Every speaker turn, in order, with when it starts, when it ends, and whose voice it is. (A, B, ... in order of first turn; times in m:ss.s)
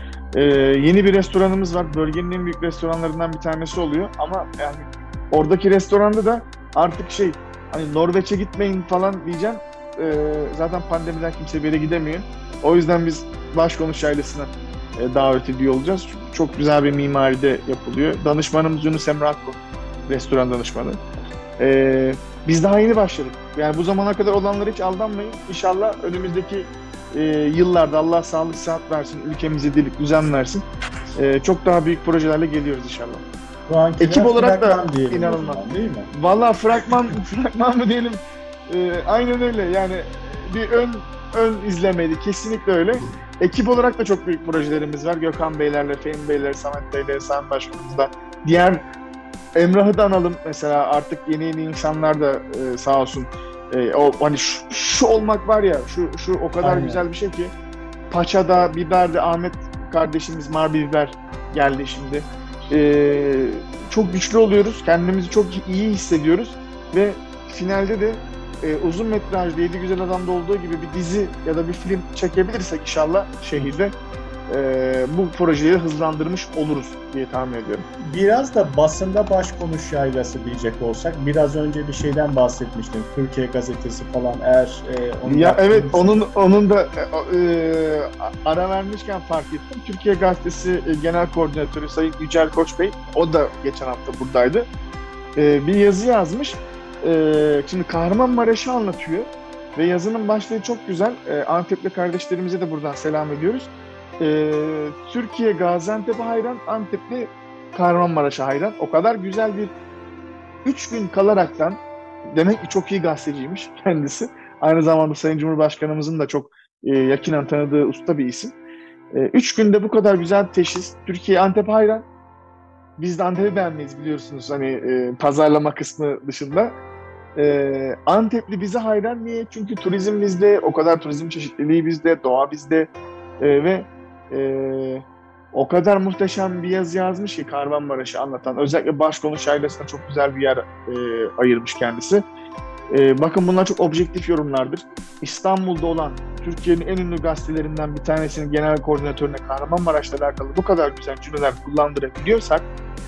0:00.3-0:21.0 A
0:21.6-0:30.6 A
0:31.2-0:33.2 A
0:33.7-0:36.1 B
0:34.0-0:48.8 A
0:49.5-0:57.5 A
0:56.6-0:57.0 B
0:58.1-1:13.9 A
1:14.5-1:17.8 A
1:18.0-1:26.2 B
1:25.2-1:34.7 A
1:35.4-1:49.7 A
1:50.6-1:58.5 A
1:59.1-2:02.0 A
2:03.0-2:06.7 A
2:07.4-2:22.2 A
2:22.9-2:32.6 A